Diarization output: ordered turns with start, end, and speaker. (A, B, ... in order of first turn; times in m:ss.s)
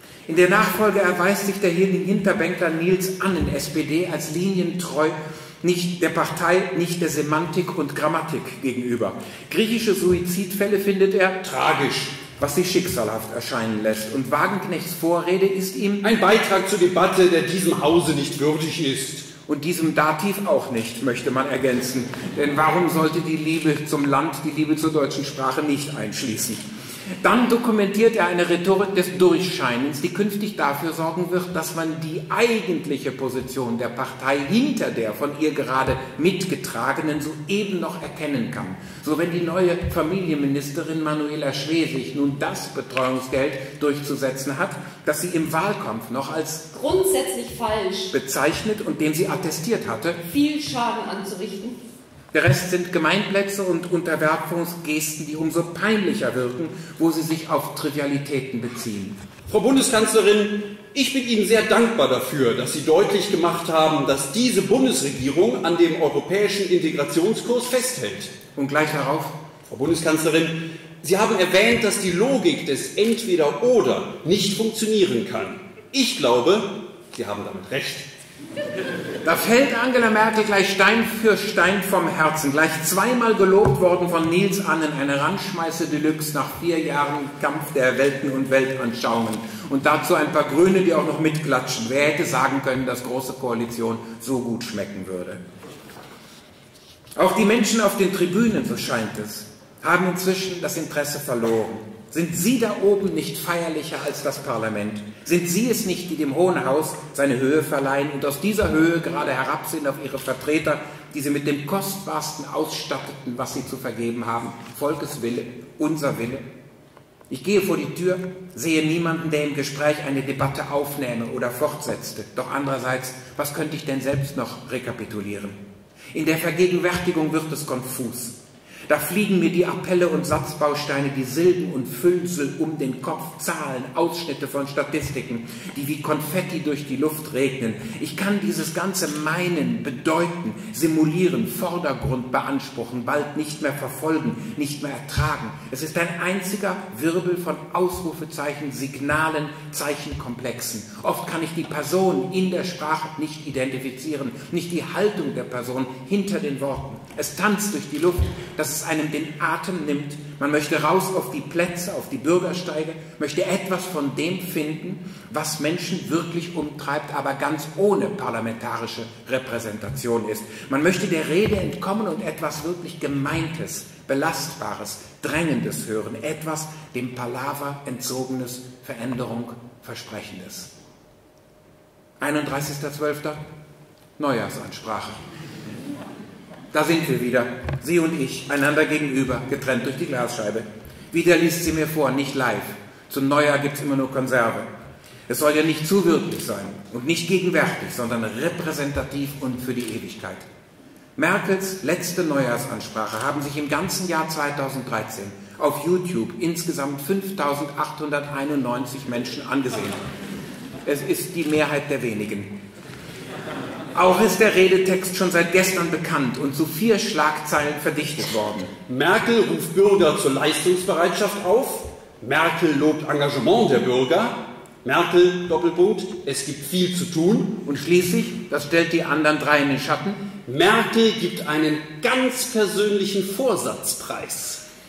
0:00.3-0:16.0 A
0:16.0-0:19.3 B
0:19.4-0:26.6 A
0:27.2-0:46.7 A
0:46.7-0:48.1 C
0:48.1-0:50.2 A
0:50.2-0:51.8 C
0:52.3-0:59.2 A
0:59.5-1:08.3 B
1:08.5-1:09.4 A
1:09.7-1:18.1 B
1:19.2-1:35.4 A
1:37.2-1:56.4 A
1:57.3-2:05.6 A
2:06.1-3:00.7 A
3:02.2-3:03.4 A
3:04.2-3:05.2 A
3:06.7-3:14.7 A
3:15.3-3:20.4 A
3:21.2-3:30.0 A
3:30.8-3:32.5 A
3:33.9-3:38.7 A
3:38.9-3:47.6 B
3:47.6-3:50.2 A
3:50.4-3:54.6 B